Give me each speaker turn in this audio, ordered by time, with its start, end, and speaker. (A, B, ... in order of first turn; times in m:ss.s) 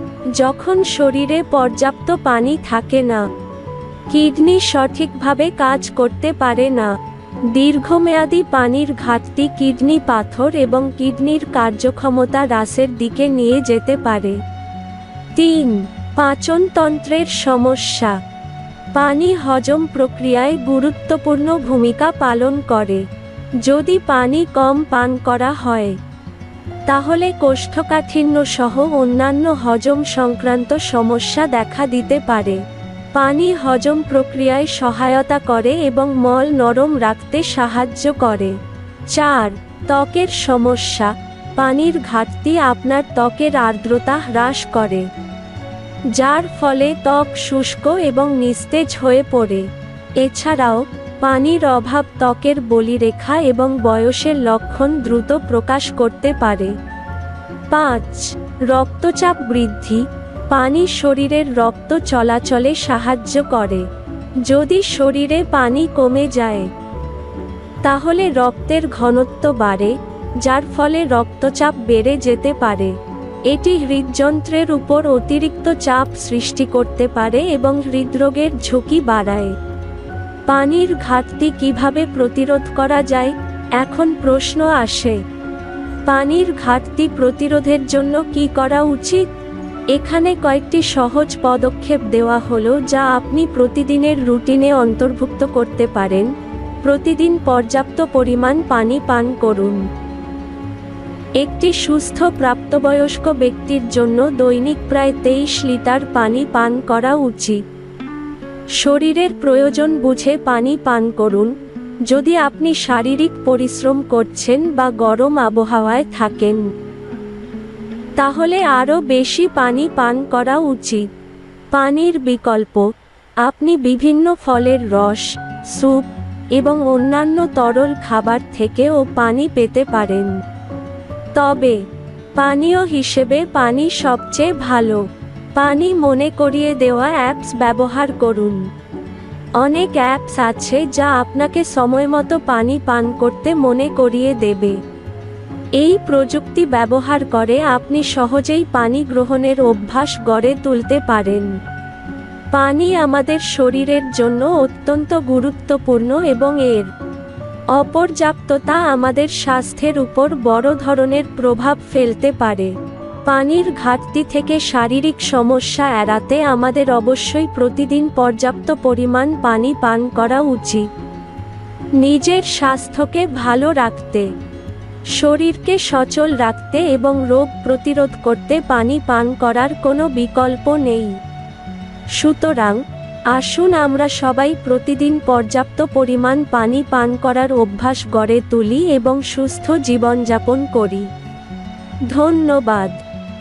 0:00.3-0:03.2 A
0:04.1-0:06.9 A
0:07.5-0:14.4 A
0:15.4-0:18.2 A
0:19.0-0:23.0 A
0:23.6-0:26.0 A
0:26.9-0:32.6 A
0:33.2-0:38.6 A
0:39.1-0:45.1 A
0:46.1-0:49.7 A
0:50.2-0:56.8 A
0:57.7-1:03.9 A
1:04.4-1:06.7 A
1:07.8-1:13.0 A
1:13.5-1:19.5 A
1:20.5-1:25.2 A
1:26.1-1:29.2 A
1:29.9-1:36.3 A
1:36.8-1:39.8 A
1:41.4-1:47.6 A
1:48.8-1:51.5 A
1:52.1-1:56.7 A
1:58.2-2:01.1 A
2:01.7-2:02.9 A
2:03.4-2:10.4 A
2:11.4-2:11.8 A
2:12.4-2:15.0 A
2:15.6-2:18.6 A
2:19.6-2:24.8 A
2:25.8-2:31.5 A
2:32.5-2:36.9 A
2:37.7-2:42.7 A
2:43.3-2:50.9 A
2:52.0-2:54.3 A
2:55.2-3:01.2 A
3:02.2-3:02.8 A
3:03.3-3:11.1 A
3:12.1-3:13.0 A